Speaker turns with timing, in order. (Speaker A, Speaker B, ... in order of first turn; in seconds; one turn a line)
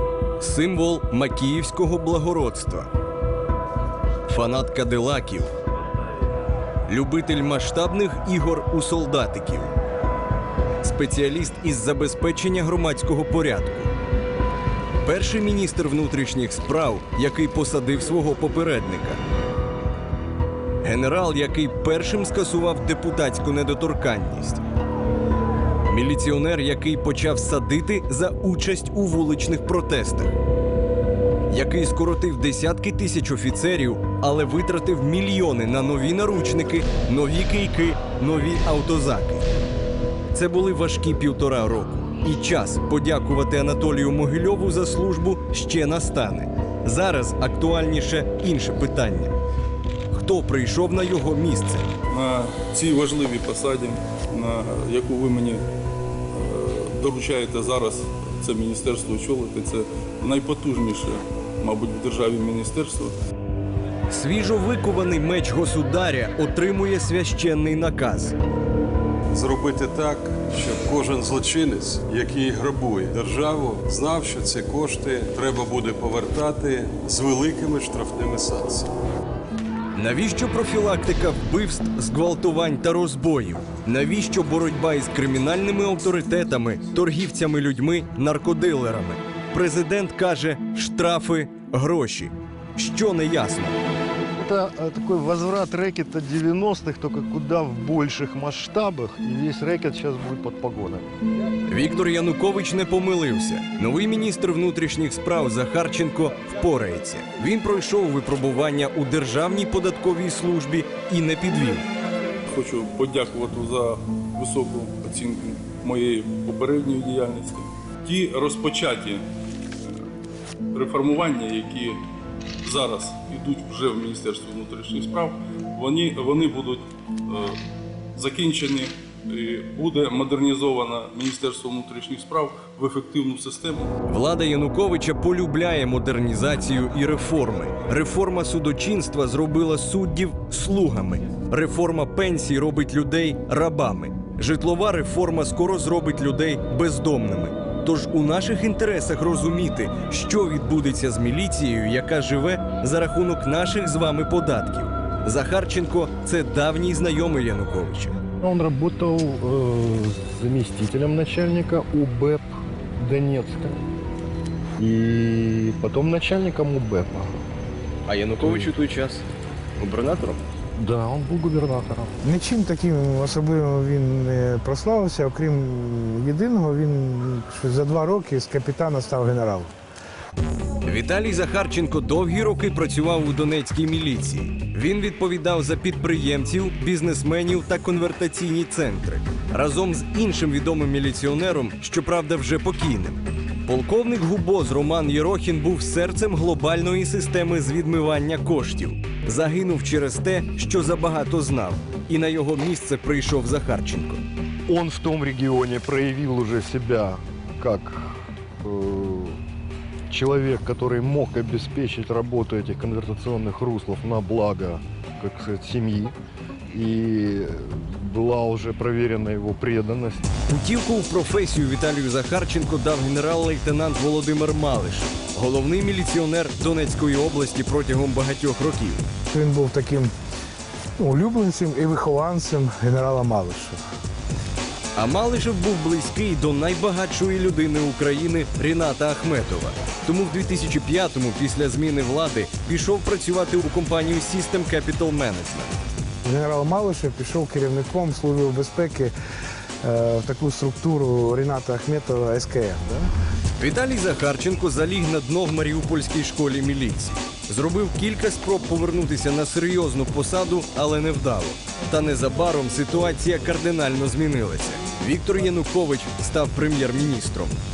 Speaker A: 0.4-2.9
Speaker A: 4.2-5.5
Speaker A: 6.9-9.7
Speaker A: 10.8-13.9
Speaker A: 15.0-19.2
Speaker A: 20.8-24.6
Speaker A: 25.9-30.3
Speaker A: 31.5-39.5
Speaker A: 40.3-49.3
Speaker A: 50.1-51.9
Speaker B: 52.1-55.6
Speaker B: 56.3-63.1
Speaker A: 64.1-68.3
Speaker C: 69.3-78.9
Speaker A: 79.9-93.8
Speaker D: 94.4-101.1
Speaker A: 101.7-111.8
Speaker B: 112.5-119.2
Speaker B: 120.7-122.0
Speaker B: 122.6-127.6
Speaker B: 128.2-133.9
Speaker A: 134.1-158.2
Speaker D: 158.4-163.8
Speaker D: 164.8-167.4
Speaker A: 168.1-169.2
Speaker A: 169.8-170.4
Speaker D: 170.8-172.1
Speaker E: 172.2-179.7
Speaker A: 180.8-204.2
Speaker D: 204.7-209.4
Speaker D: 210.1-216.1
Speaker D: 216.7-220.3
Speaker A: 220.5-229.1
Speaker E: 229.3-230.1
Speaker E: 231.0-233.8
Speaker A: 234.9-245.7
Speaker E: 246.2-249.1
Speaker E: 249.8-253.1
Speaker A: 253.6-267.6